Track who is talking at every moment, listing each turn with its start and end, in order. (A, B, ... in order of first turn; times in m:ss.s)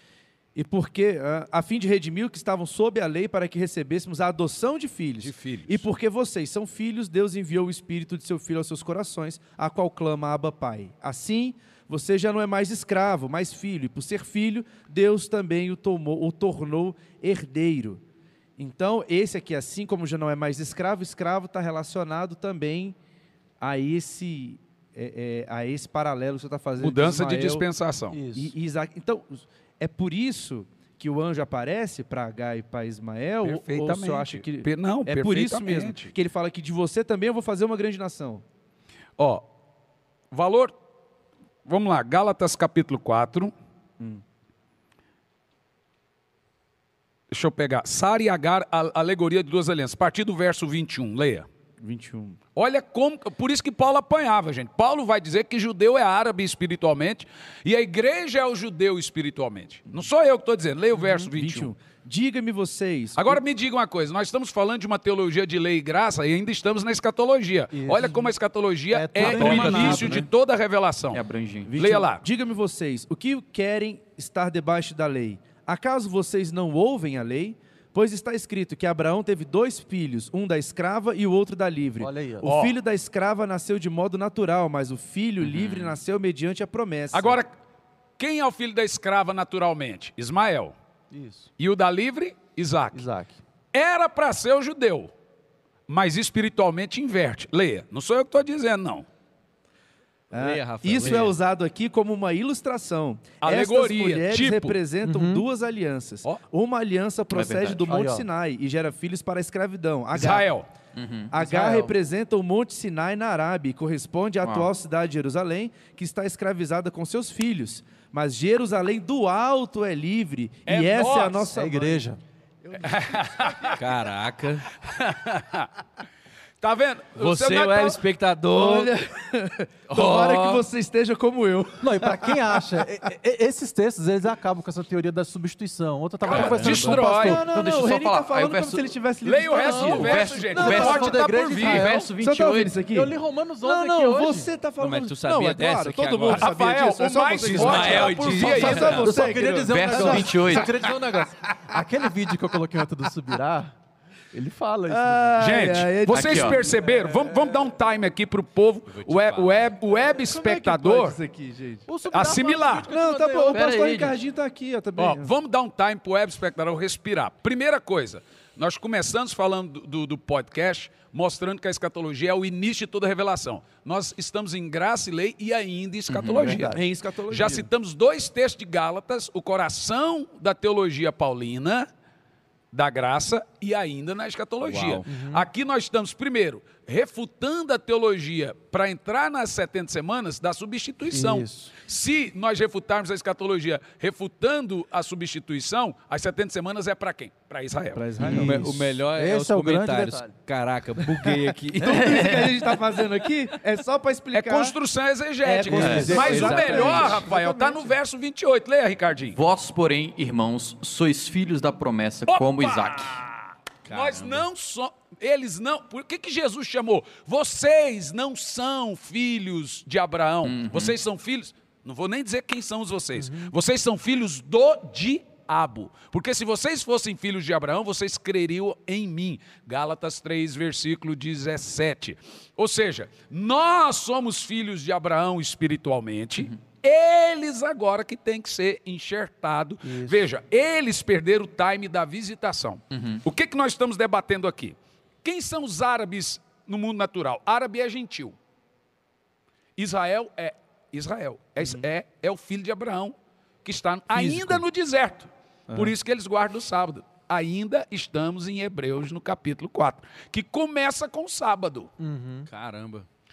0:00.5-0:18.0 A
0:05.2-0:05.8 B
0:18.6-0:23.0 A
0:23.6-0:27.6 A
0:26.8-0:28.2 B
0:28.1-0:28.5 C
0:28.3-0:38.4 A
0:33.4-0:36.1 B
0:39.2-0:39.4 B
0:40.3-0:40.7 B
0:41.7-0:43.5 B
0:47.3-0:51.5 B
0:51.8-0:52.4 A
0:52.5-1:01.7 B
1:00.9-1:03.4 A
1:03.2-1:11.2 B
1:07.7-1:08.3 C
1:08.9-1:10.2 C
1:09.2-1:10.2 D
1:11.1-1:11.7 D
1:11.6-1:27.4 A
1:11.8-1:12.2 B
1:22.0-1:22.5 C
1:22.4-1:22.8 B
1:25.4-1:26.0 E
1:27.1-1:27.5 B
1:28.2-1:30.7 B
1:31.1-1:31.5 C
1:31.6-1:33.1 B
1:32.9-1:33.4 C
1:33.7-1:35.1 B
1:35.9-1:39.0 B
1:40.3-1:41.4 E
1:40.3-1:50.4 A
1:43.4-1:44.8 B
1:45.0-1:45.4 C
1:47.3-1:47.9 D
1:47.8-1:48.3 C
1:50.1-1:50.7 B
1:50.9-1:51.9 D
1:51.3-2:02.0 A
1:54.4-1:54.7 D
2:00.6-2:01.5 B
2:01.5-2:02.2 C
2:02.6-2:03.8 A
2:02.7-2:03.8 B
2:03.7-2:04.7 E
2:04.8-2:05.7 B
2:06.6-2:08.0 B
2:07.2-2:08.9 E
2:08.5-2:12.7 A
2:09.9-2:10.6 E
2:11.8-2:17.5 C
2:16.2-2:17.4 B
2:16.3-2:21.0 A
2:17.3-2:19.0 D
2:19.2-2:22.1 B
2:19.6-2:21.2 D
2:20.0-2:24.5 C
2:21.6-2:30.7 A
2:21.8-2:22.7 D
2:24.8-2:26.5 E
2:26.3-2:29.1 B
2:27.4-2:29.4 E
2:28.3-2:33.7 C
2:29.2-2:30.7 D
2:34.3-2:35.6 C
2:34.9-2:37.7 A
2:35.4-2:41.2 B
2:36.1-2:36.6 D
2:38.9-2:39.7 E
2:40.0-2:41.9 A
2:41.9-2:43.6 C
2:42.1-2:42.9 B
2:42.9-2:45.3 A
2:43.5-2:44.2 D
2:45.0-3:01.9 B
2:56.1-2:56.5 E
2:56.3-2:56.8 C
2:56.5-2:57.7 A
3:02.7-3:18.1 B
3:04.6-3:05.1 E
3:05.0-3:05.5 C
3:11.1-3:11.7 C
3:17.9-3:18.7 A
3:18.2-3:20.3 C
3:18.2-3:22.6 E
3:21.8-3:24.7 A
3:24.3-3:29.4 B
3:25.4-3:28.0 A
3:25.7-3:27.2 C
3:25.8-3:26.2 D
3:26.1-3:27.2 E
3:29.3-3:33.2 D
3:32.3-4:08.3 B
3:33.8-3:34.4 E
3:40.5-3:40.9 D
3:43.2-3:43.5 C
3:59.8-4:00.2 C
4:02.9-4:03.2 D
4:09.8-4:21.9 B
4:11.6-4:11.8 A
4:14.1-4:14.6 A
4:15.7-4:15.9 A
4:22.0-4:22.5 C
4:22.5-4:23.1 E